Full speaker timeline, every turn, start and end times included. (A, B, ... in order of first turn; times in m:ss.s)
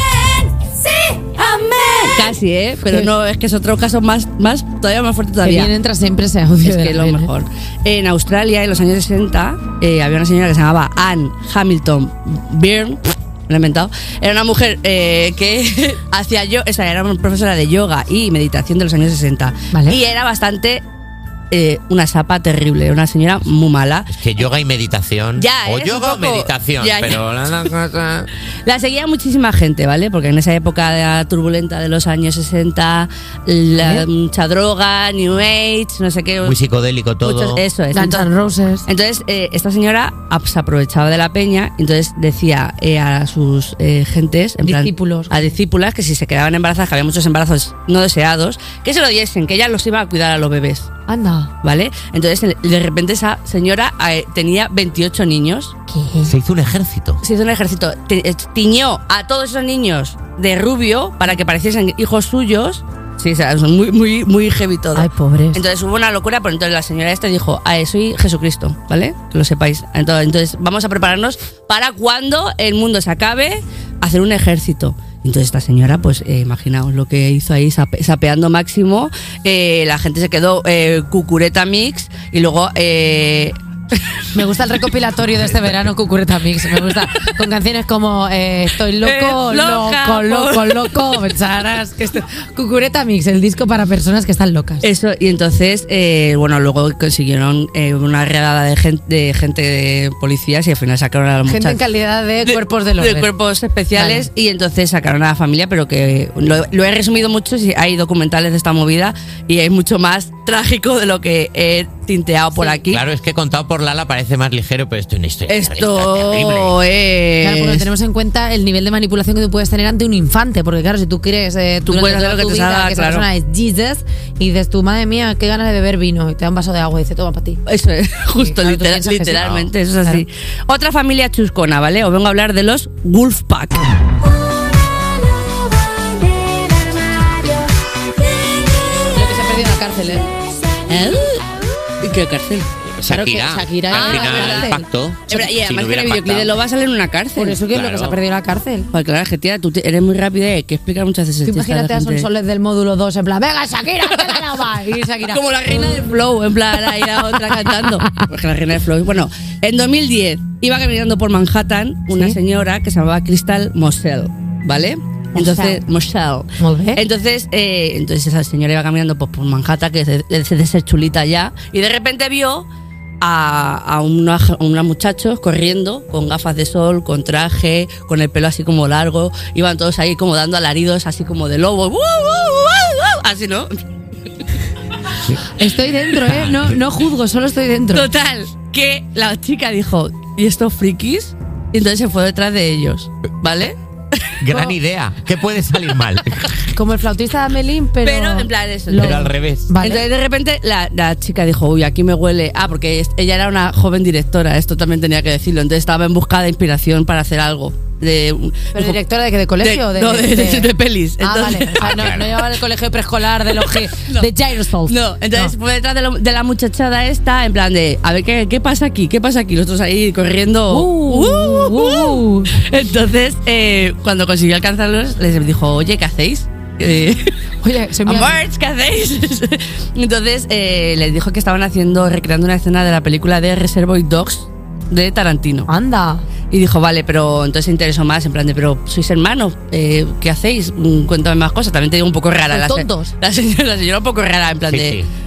0:01.1-0:05.7 A
0:05.4-0:07.3 B
0:06.6-0:20.8 A
0:19.7-0:20.0 B
0:21.5-0:24.2 A
0:24.1-0:28.3 C
0:25.4-0:27.2 A
0:28.6-0:36.6 A
0:33.8-0:34.1 B
0:36.4-0:37.6 C
0:37.2-0:38.3 A
0:37.9-0:38.9 B
0:38.9-0:50.9 A
0:44.6-0:45.6 B
0:51.1-0:51.5 B
0:51.6-0:55.8 A
0:55.9-0:56.3 B
0:56.2-0:57.2 C
0:57.2-1:23.6 A
1:04.9-1:05.6 B
1:24.3-1:34.9 B
1:29.0-1:31.2 A
1:34.8-1:41.8 A
1:41.4-1:43.3 B
1:42.4-1:53.0 A
1:43.9-1:44.3 B
1:52.6-1:52.8 B
1:52.9-1:56.8 C
1:55.5-1:57.9 A
1:57.4-2:07.6 B
2:01.9-2:03.3 A
2:07.7-2:13.9 A
2:08.4-2:09.5 B
2:09.4-2:09.7 C
2:19.1-2:20.3 B
2:20.9-2:22.7 A
2:23.0-2:26.6 C
2:23.1-2:24.9 B
2:23.9-2:24.8 A
2:25.3-2:27.6 A
2:27.4-2:28.9 B
2:27.7-2:28.2 C
2:28.9-2:32.3 A
2:31.4-2:35.4 B
2:34.1-2:34.5 A
2:35.2-2:52.7 A
2:37.0-2:38.3 B
2:42.1-2:42.4 B
2:45.4-2:45.8 B
2:46.6-2:47.0 B
2:53.2-3:03.7 A
3:05.5-3:08.1 B
3:06.4-3:06.8 C
3:07.9-3:13.8 A
3:14.3-3:14.7 A
3:14.4-3:16.5 C
3:16.7-3:20.0 B
3:18.0-3:19.3 A
3:19.0-3:19.7 C
3:19.8-3:29.0 A
3:28.7-3:35.5 B
3:29.6-3:32.4 A
3:31.8-3:32.3 C
3:33.4-3:34.3 A
3:34.9-3:47.4 A
3:40.7-3:42.6 B
3:47.6-3:48.4 B
3:48.0-3:55.7 A
3:55.7-3:56.2 B
3:56.5-4:05.0 A
4:02.5-4:03.1 B
4:04.7-4:05.1 C